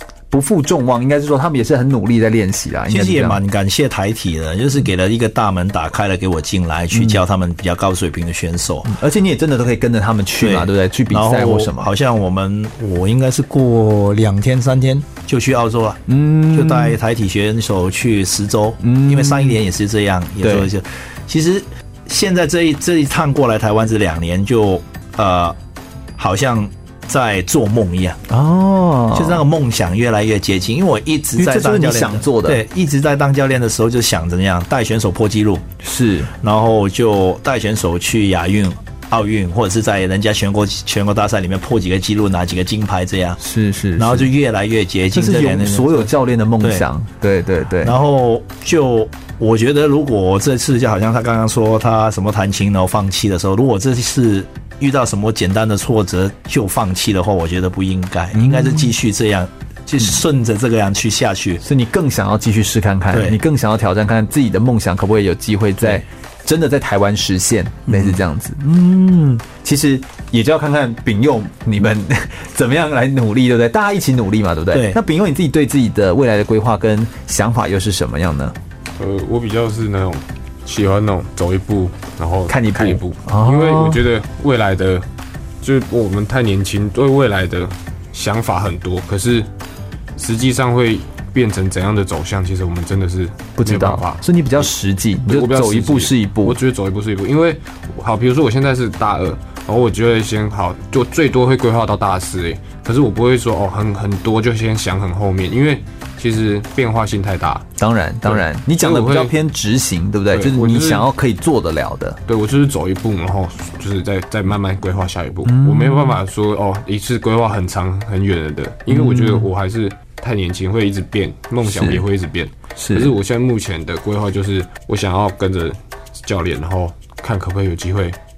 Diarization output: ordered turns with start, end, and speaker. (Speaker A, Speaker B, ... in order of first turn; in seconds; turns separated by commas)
Speaker A: 0.3-3.4, Speaker B: 2.9-8.9, Speaker A: 6.9-7.2, Speaker A: 8.8-11.9, Speaker B: 10.4-25.6, Speaker A: 16.1-16.9, Speaker A: 18.8-19.6, Speaker A: 20.4-20.7, Speaker B: 26.2-28.2, Speaker A: 28.3-29.4, Speaker B: 29.1-35.6, Speaker A: 31.4-32.6, Speaker A: 35.8-36.3, Speaker B: 36.4-43.4, Speaker A: 43.4-44.3, Speaker B: 44.0-46.8, Speaker A: 45.1-47.9, Speaker B: 47.8-61.6, Speaker A: 58.3-58.9, Speaker A: 61.6-78.5, Speaker B: 63.1-63.4, Speaker B: 67.9-68.2, Speaker B: 74.7-75.0, Speaker C: 79.0-85.1, Speaker A: 82.5-84.0, Speaker C: 85.6-89.5, Speaker C: 90.2-94.7, Speaker A: 93.6-96.6, Speaker C: 95.2-107.7, Speaker A: 107.8-112.2, Speaker C: 108.2-109.3, Speaker C: 110.3-111.1, Speaker C: 112.2-128.2, Speaker A: 115.4-116.2, Speaker A: 118.9-119.5, Speaker A: 121.7-122.0, Speaker A: 122.8-123.1